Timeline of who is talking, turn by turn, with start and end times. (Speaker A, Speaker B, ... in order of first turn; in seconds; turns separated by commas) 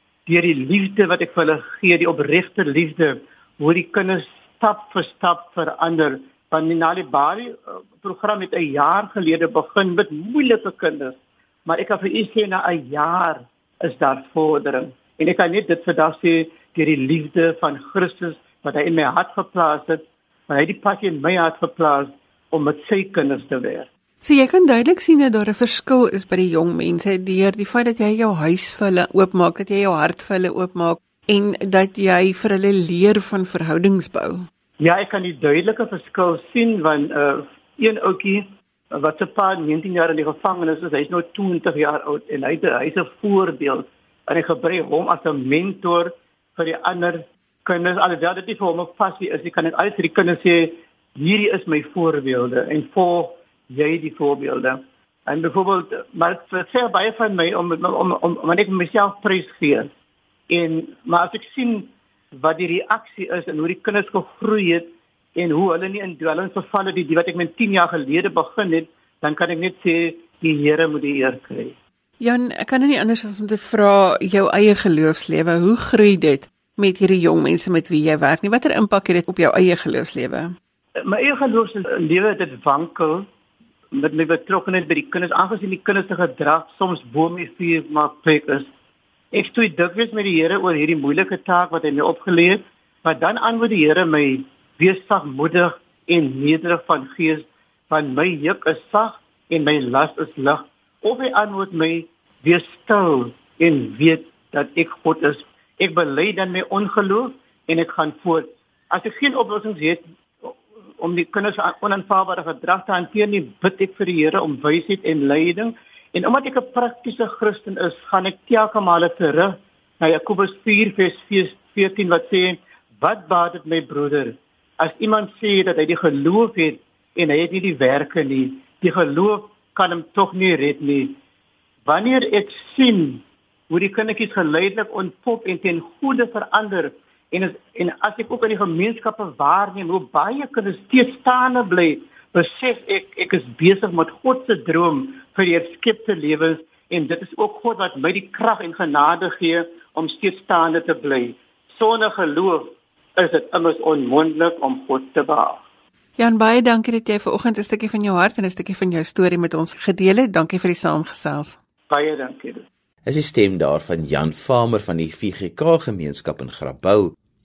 Speaker A: 0.2-23.9, Speaker B: 24.2-34.5, Speaker A: 34.8-59.9, Speaker A: 60.5-71.8, Speaker B: 72.2-80.5, Speaker A: 81.0-83.3, Speaker A: 83.9-88.7, Speaker A: 89.3-131.2, Speaker A: 131.8-155.6, Speaker B: 156.2-161.6, Speaker A: 161.9-162.6, Speaker C: 163.1-167.1